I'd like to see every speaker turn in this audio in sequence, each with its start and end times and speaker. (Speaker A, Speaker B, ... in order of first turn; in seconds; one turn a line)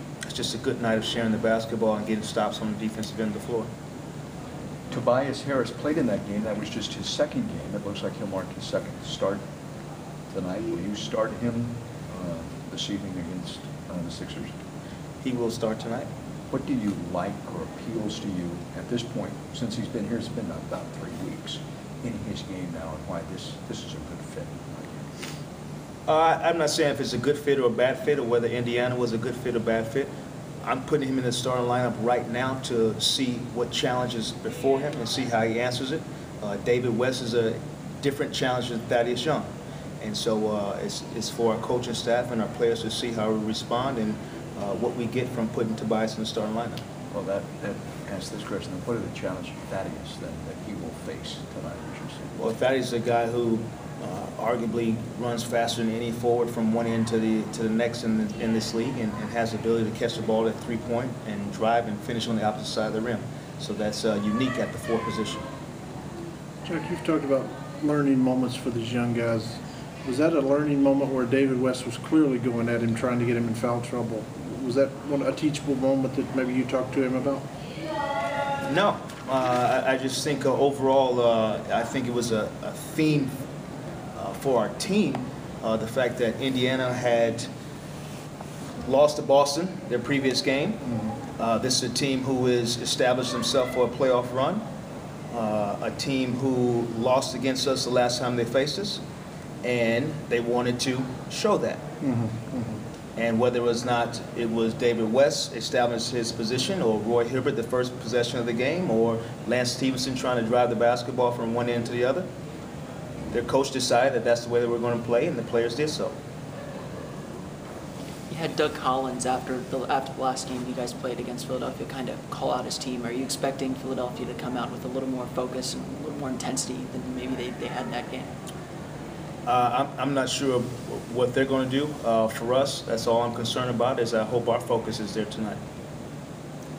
Speaker A: 0.3-3.7
Speaker B: 4.9-9.4
Speaker B: 10.3-14.6
Speaker A: 15.2-16.1
Speaker B: 16.5-25.0
Speaker A: 26.1-30.1
Speaker A: 30.6-39.5
Speaker A: 40.0-46.8
Speaker B: 47.1-52.3
Speaker A: 52.4-65.5
Speaker C: 66.7-77.5
Speaker A: 78.7-83.3
Speaker A: 84.2-87.5
Speaker A: 88.8-90.8
Speaker A: 91.3-94.6
Speaker A: 95.3-99.0
Speaker A: 99.6-101.8
Speaker C: 102.0-102.8
Speaker A: 103.2-112.3
Speaker A: 113.3-116.1
Speaker D: 118.3-128.3
Speaker A: 129.5-135.6